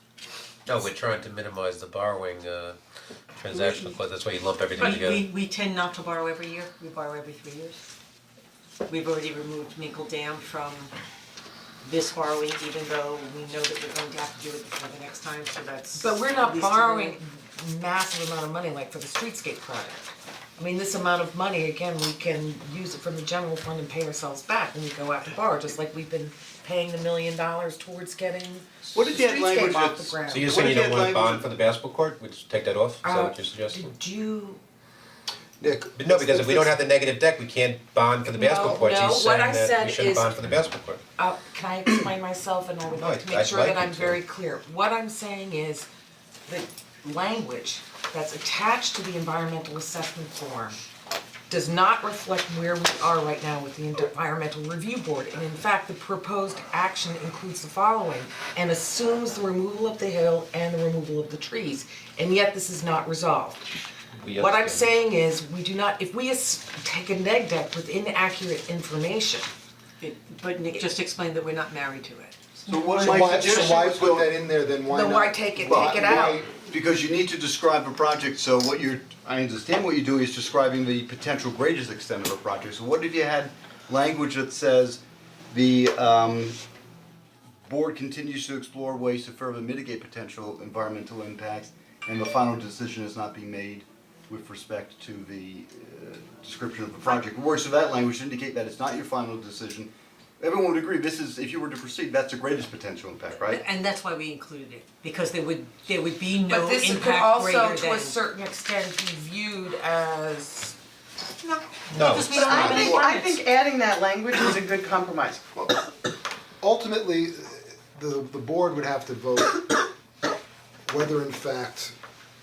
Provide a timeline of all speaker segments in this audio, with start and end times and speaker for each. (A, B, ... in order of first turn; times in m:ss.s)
0:00.7-0:02.8 A
0:03.4-0:05.3 A
0:04.8-0:07.8 B
0:08.9-0:10.9 B
0:11.8-0:17.2 B
0:16.0-0:30.7 C
0:28.9-0:31.4 D
0:30.3-0:33.9 A
0:33.0-0:34.6 C
0:35.6-0:36.8 E
0:36.0-0:41.0 A
0:38.4-0:40.3 C
0:41.2-0:45.9 C
0:43.0-0:44.2 A
0:46.5-0:50.8 C
0:51.5-1:03.6 C
1:04.2-1:04.9 A
1:04.4-1:09.5 C
1:10.0-1:13.6 B
1:12.7-1:14.4 D
1:13.0-1:16.5 E
1:14.9-1:16.4 C
1:15.6-1:26.6 D
1:27.6-1:43.6 D
1:43.4-1:48.2 B
1:46.5-1:50.8 C
1:51.9-1:53.4 B
1:51.9-1:52.8 A
1:52.4-1:53.0 E
1:52.4-1:55.4 F
1:56.6-1:59.9 E
2:00.9-2:01.9 E